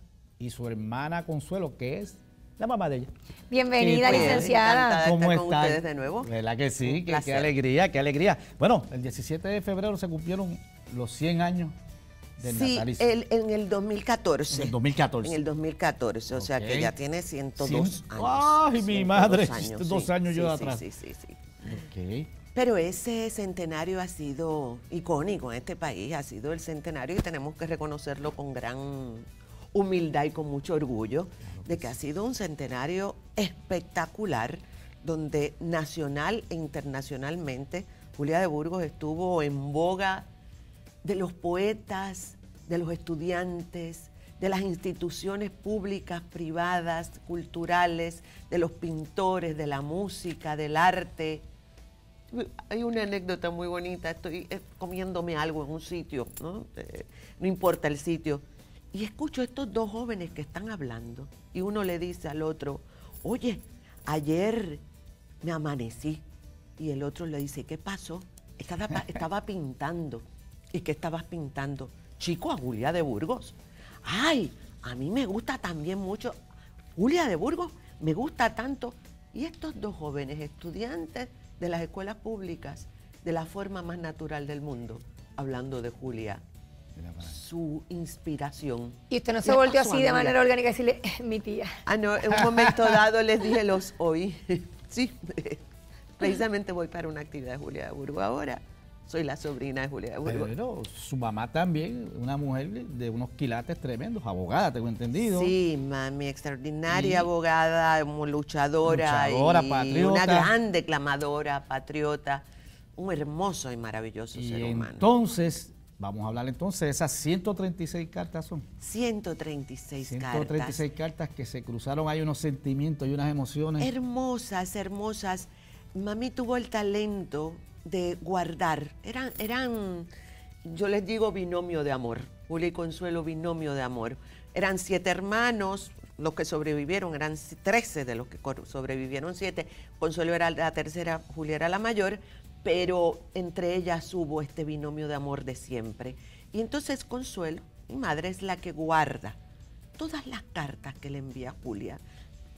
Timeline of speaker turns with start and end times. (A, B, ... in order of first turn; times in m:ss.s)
0:00.4-0:03.1 A
0:03.5-0:05.0 B
0:03.8-0:11.7 A
0:04.0-0:07.5 C
0:12.4-0:13.1 A
0:12.4-0:21.8 C
0:14.5-0:15.4 A
0:16.3-0:16.9 A
0:17.6-0:20.8 A
0:21.6-0:22.3 A
0:22.5-0:40.3 C
0:31.6-0:31.9 A
0:41.0-0:51.5 C
0:52.3-1:04.8 C
1:05.4-1:06.2 C
1:06.8-1:16.4 C
1:17.0-1:26.4 C
1:27.0-1:27.3 A
1:27.2-1:30.5 C
1:29.1-1:31.8 B
1:31.9-1:35.6 C
1:36.2-1:40.5 C
1:40.2-1:45.6 A
1:45.2-1:52.4 C
1:46.9-1:47.3 A
1:48.8-1:50.5 A
1:53.0-1:55.1 C
1:54.3-1:58.6 A
1:58.8-2:00.8 C
2:00.0-2:03.9 A
2:03.8-2:10.1 C
2:10.6-2:29.4 C
2:30.0-2:32.0 C